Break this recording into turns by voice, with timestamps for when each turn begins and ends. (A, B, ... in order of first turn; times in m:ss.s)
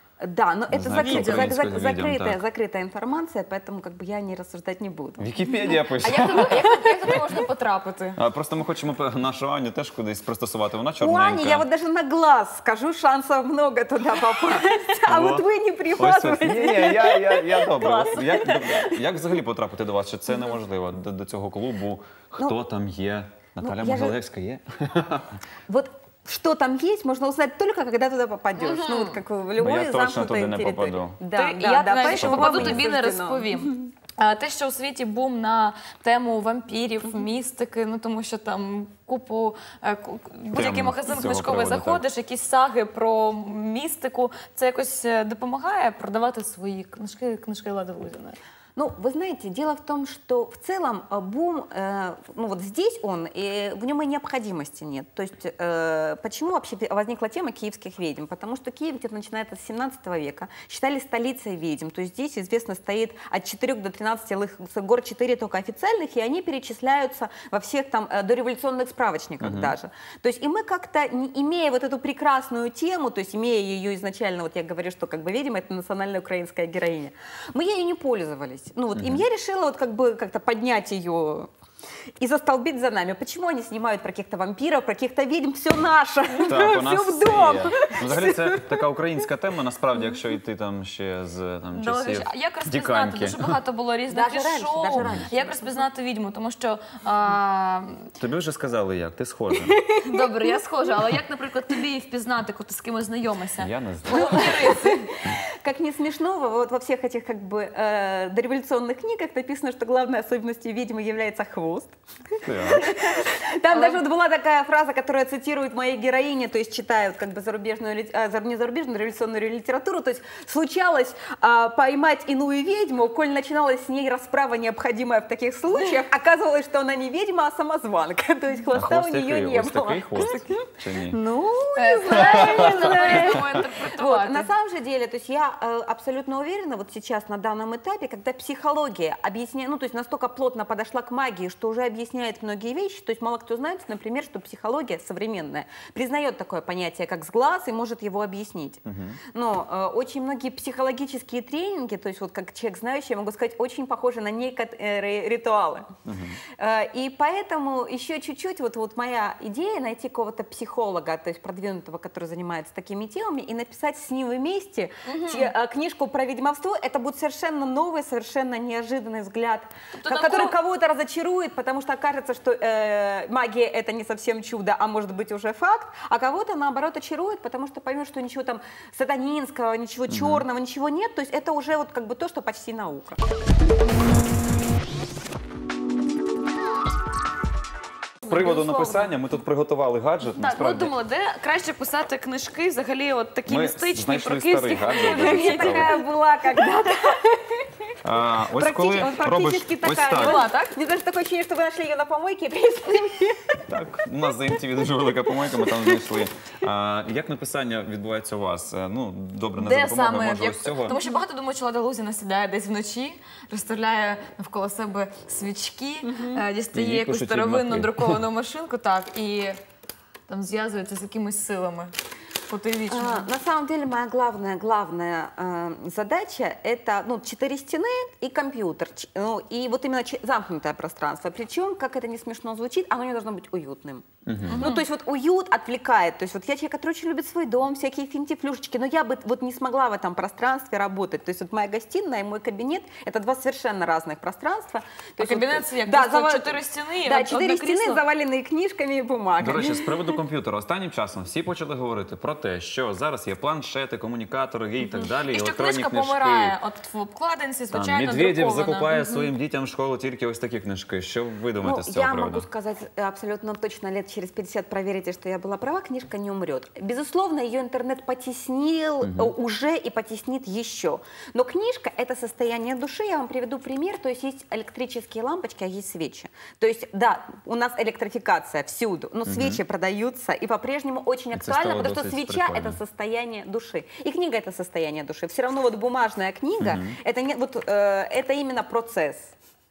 0:00.2-0:05.3 A
0:00.7-0:02.4 B
0:00.9-0:01.5 C
0:05.2-0:07.2 B
0:06.0-0:08.2 C
0:06.5-0:07.2 A
0:08.2-0:11.7 B
0:11.0-0:19.0 A
0:15.1-0:15.4 B
0:16.0-0:25.4 B
0:23.6-0:24.2 A
0:25.7-0:33.7 A
0:28.6-0:29.2 C
0:29.6-0:31.2 B
0:31.3-0:48.4 C
0:32.0-0:32.8 B
0:40.5-0:42.0 B
0:48.8-1:21.5 A
1:09.4-1:09.7 B
1:19.0-1:19.2 B
1:22.2-1:28.8 A
1:26.5-1:33.6 B
1:31.7-1:38.1 C
1:34.1-1:35.8 A
1:38.2-1:39.8 B
1:39.8-1:40.3 A
1:40.0-1:45.1 C
1:43.6-1:44.6 B
1:44.1-1:52.0 A
1:52.4-1:52.9 B
1:52.5-2:35.9 A
1:53.7-1:54.0 C
2:08.7-2:11.2 B
2:10.2-2:10.4 C
2:11.8-2:14.5 C
2:12.2-2:13.0 B
2:28.9-2:29.2 B
2:36.0-2:36.4 B
2:36.6-3:03.2 A
2:45.1-2:45.5 C
2:49.9-2:50.6 C
3:00.1-3:00.4 B
3:08.2-3:09.1 C
3:08.3-3:10.9 B
3:10.4-3:16.1 C
3:13.5-3:16.0 B
3:15.0-3:17.5 A
3:18.0-3:20.4 B
3:18.5-3:23.6 A
3:20.1-3:20.7 C
3:23.7-3:31.0 B
3:25.3-3:26.0 A
3:29.6-3:39.6 C
3:36.0-3:36.4 A
3:36.7-3:38.2 B
3:40.3-3:41.9 C
3:42.5-3:43.3 C
3:42.9-4:10.2 A
3:54.3-3:54.7 B
3:54.5-3:54.9 C
4:05.2-4:08.0 C
4:09.4-4:16.6 B
4:14.9-4:19.3 C
4:17.7-4:22.5 B
4:21.6-4:49.3 A
4:29.0-4:29.3 B
4:39.3-4:39.6 B
4:41.3-4:42.8 B
4:46.6-4:47.0 B